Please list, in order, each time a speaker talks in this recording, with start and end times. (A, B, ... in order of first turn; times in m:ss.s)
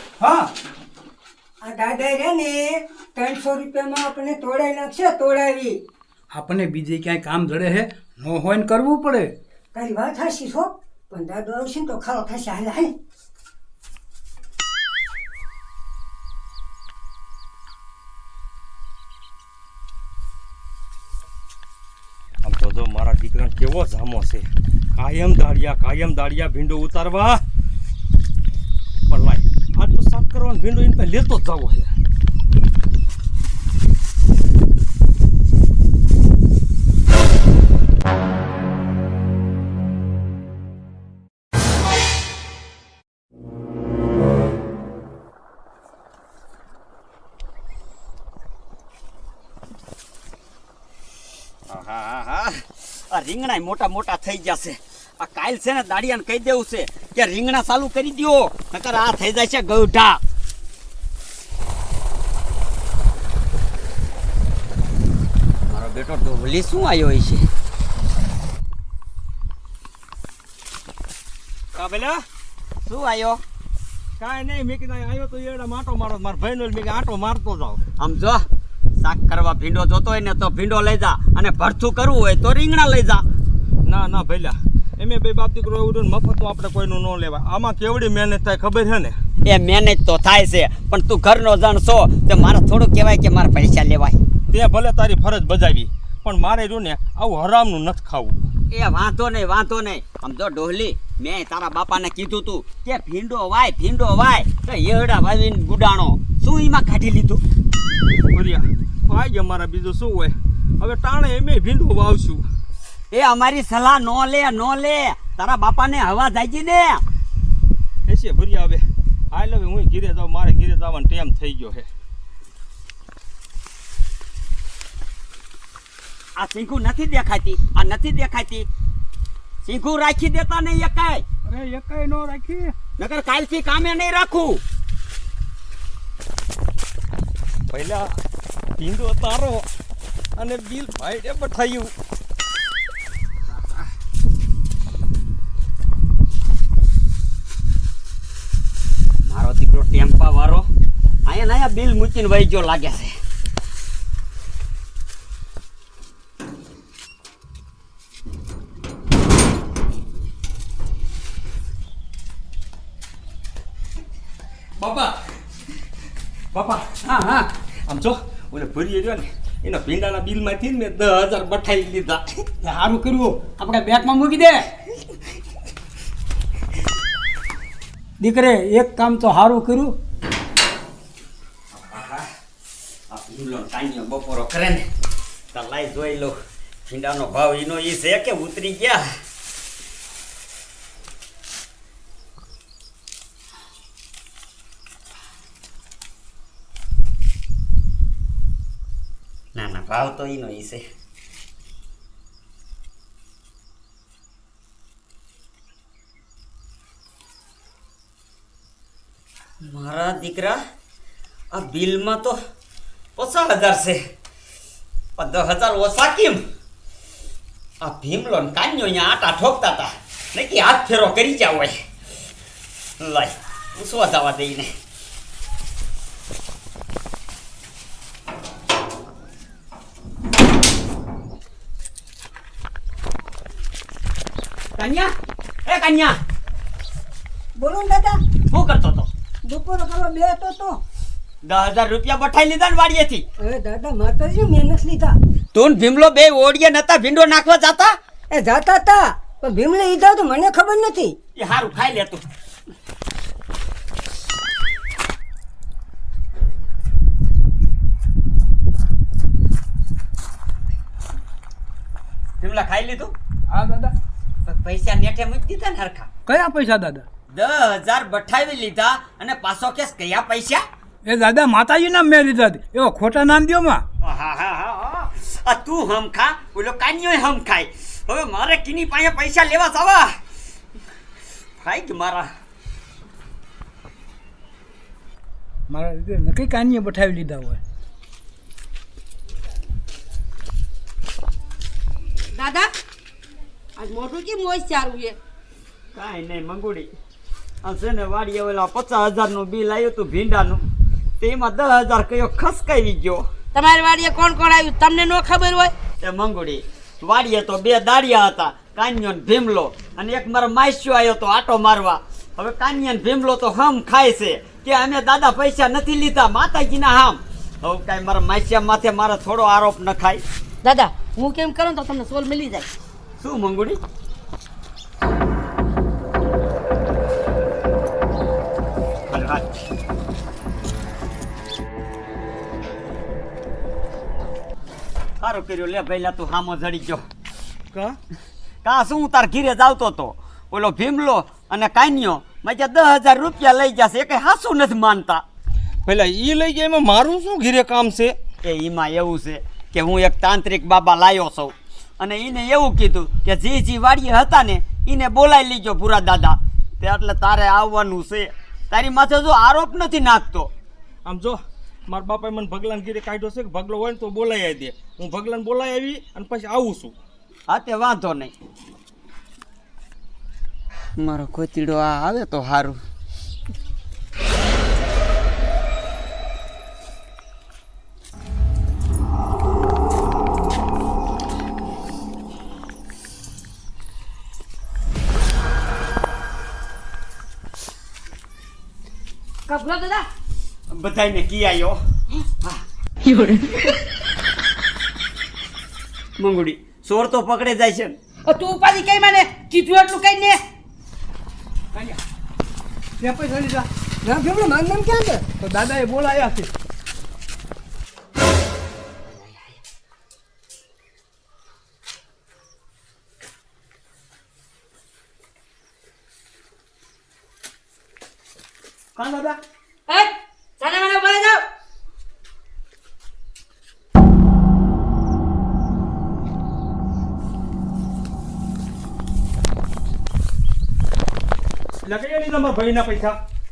0:00.2-0:00.5 A
0:01.6-0:05.8 B
0:06.3-0:09.3 A
0:09.7-0:12.9 B
0:22.4-0:27.4 C
0:29.1-0:31.9 C
0:51.7-1:00.2 D
1:05.7-1:07.5 D
1:11.8-1:12.2 C
1:12.8-1:13.4 D
1:14.2-1:17.8 C
1:18.0-1:18.5 D
1:19.0-1:23.2 D
1:23.9-1:29.2 C
1:29.5-1:34.2 D
1:34.5-1:38.4 C
1:38.7-1:47.4 D
1:48.3-1:52.5 C
1:53.1-1:57.0 D
1:58.1-2:01.9 C
2:06.4-2:08.7 D
2:09.6-2:11.2 D
2:11.5-2:12.8 A
2:13.0-2:14.6 D
2:17.7-2:18.1 C
2:18.8-2:19.7 C
2:20.4-2:21.9 C
2:29.3-2:30.7 D
2:31.3-2:33.2 D
2:44.8-2:45.2 C
2:46.5-2:47.0 C
2:47.0-2:47.5 A
2:47.9-2:52.4 C
2:52.6-2:54.7 A
2:58.2-2:59.9 A
3:01.7-3:02.3 D
3:03.1-3:04.9 D
3:05.5-3:06.4 D
3:06.9-3:09.0 D
3:19.6-3:20.8 D
3:29.6-3:30.6 D
3:31.5-3:32.4 D
3:33.2-3:34.0 D
3:35.2-3:36.4 D
3:37.8-3:41.8 D
3:43.0-3:44.7 D
3:54.8-3:55.1 D
3:55.7-3:56.2 D
3:57.6-3:58.2 B
3:58.5-3:59.1 D
3:59.5-4:00.8 B
4:01.4-4:03.2 D
4:03.4-4:05.2 B
4:05.5-4:08.0 D
4:08.3-4:11.2 B
4:11.4-4:12.2 D
4:22.4-4:23.1 D
4:23.5-4:23.9 A
4:24.5-4:26.1 D
4:26.3-4:27.0 A
4:27.3-4:30.6 D
4:31.0-4:33.8 A
4:34.0-4:40.1 D
4:41.6-4:42.3 D
4:45.7-4:47.6 A
4:52.3-4:52.7 E
4:53.8-4:55.2 E
4:55.9-4:56.9 D
4:57.6-5:00.6 D
5:01.2-5:03.2 D
5:03.5-5:05.7 E
5:06.0-5:20.2 D
5:20.6-5:22.7 E
5:23.2-5:23.8 D
5:29.1-5:29.6 D
5:35.2-5:37.0 D
5:37.7-5:38.0 C
5:38.6-5:45.2 D
5:45.9-5:48.2 C
5:48.4-6:00.5 D
6:01.0-6:07.0 C
6:07.5-6:08.3 D
6:11.0-6:12.8 D
6:29.5-6:30.1 E
6:30.7-6:31.8 D
6:36.2-6:38.0 D
6:38.3-6:40.4 E
6:43.0-6:43.7 A
6:44.0-6:45.2 B
6:45.4-6:46.5 A
6:49.1-6:49.5 D
6:59.0-6:59.3 A
6:59.9-7:01.4 E
7:11.8-7:13.2 C